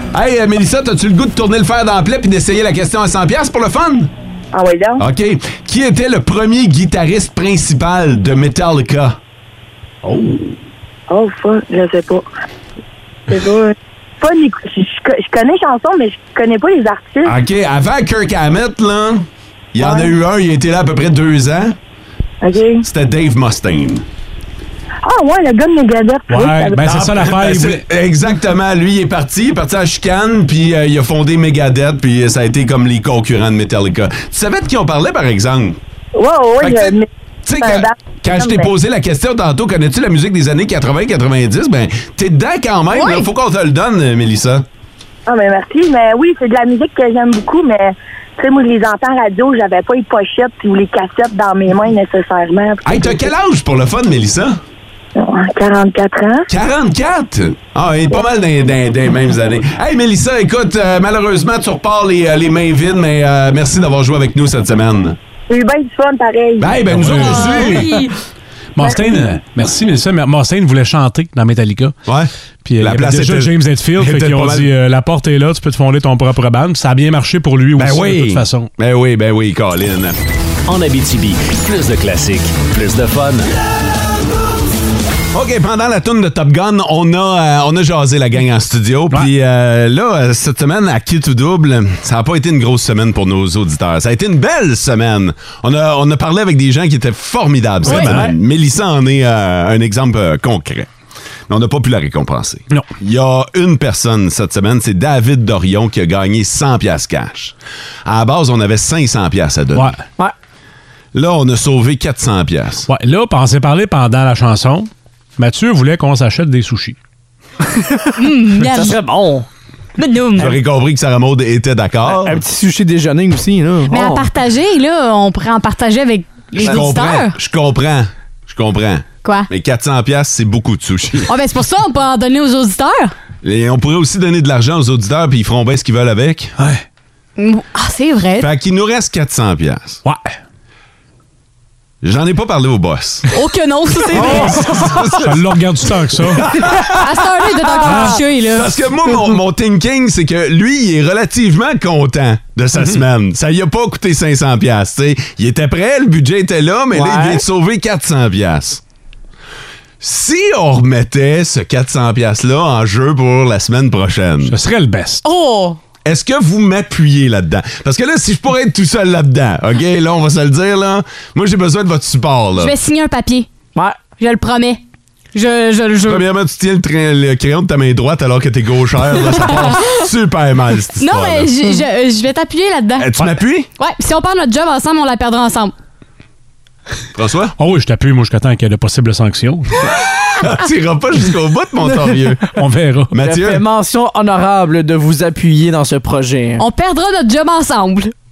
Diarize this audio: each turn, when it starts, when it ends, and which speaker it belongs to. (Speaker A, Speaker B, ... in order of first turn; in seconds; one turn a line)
Speaker A: 0.1-4.1
Speaker B: 4.5-5.0
Speaker A: 5.0-9.2
Speaker C: 10.0-10.4
Speaker B: 11.1-12.3
Speaker B: 13.3-17.4
Speaker A: 17.3-21.8
Speaker B: 19.8-20.1
Speaker B: 22.4-22.9
Speaker A: 22.8-24.1
Speaker B: 25.1-26.9
Speaker C: 26.3-27.9
Speaker A: 26.8-35.8
Speaker B: 36.2-38.7
Speaker A: 36.6-36.9
Speaker A: 37.5-44.6
Speaker D: 42.9-43.3
Speaker B: 45.3-53.3
Speaker A: 52.9-54.6
Speaker B: 55.2-56.5
Speaker A: 56.5-65.2
Speaker B: 65.5-66.8
Speaker A: 66.6-68.0
Speaker C: 66.9-67.8
Speaker D: 67.1-68.1
Speaker C: 68.8-72.0
Speaker B: 68.8-69.2
Speaker A: 72.1-74.7
Speaker C: 72.6-78.7
Speaker A: 77.8-80.2
Speaker E: 80.7-83.5
Speaker A: 85.3-100.9
Speaker C: 97.8-98.4
Speaker D: 97.9-98.2
Speaker A: 101.5-107.5
Speaker A: 108.1-109.9
Speaker C: 109.7-110.0
Speaker A: 111.1-112.9
Speaker C: 112.9-117.0
Speaker D: 118.2-119.0
Speaker F: 118.6-119.5
Speaker D: 120.0-120.5
Speaker A: 120.4-122.4
Speaker F: 122.1-124.3
Speaker D: 123.9-127.3
Speaker A: 126.6-131.3
Speaker D: 129.2-129.5
Speaker D: 131.3-133.1
Speaker A: 133.4-136.6
Speaker C: 136.6-136.8
Speaker D: 137.4-138.5
Speaker A: 138.4-140.0
Speaker C: 140.0-140.3
Speaker A: 142.0-143.3
Speaker D: 143.3-144.9
Speaker A: 144.1-147.1
Speaker C: 144.2-146.5
Speaker D: 147.0-148.7
Speaker C: 147.8-148.2
Speaker A: 147.9-158.8
Speaker F: 156.9-157.4
Speaker A: 160.0-164.6
Speaker C: 164.5-165.2
Speaker D: 165.2-165.8
Speaker A: 166.1-172.7
Speaker D: 172.6-173.5
Speaker D: 174.2-174.8
Speaker D: 175.3-176.3
Speaker A: 176.1-181.6
Speaker D: 181.0-183.1
Speaker A: 183.0-183.7
Speaker D: 183.8-185.7
Speaker A: 187.2-187.6
Speaker C: 187.6-189.8
Speaker A: 190.4-192.6
Speaker C: 192.5-193.1
Speaker A: 193.1-193.7
Speaker F: 193.2-196.6
Speaker D: 196.6-198.1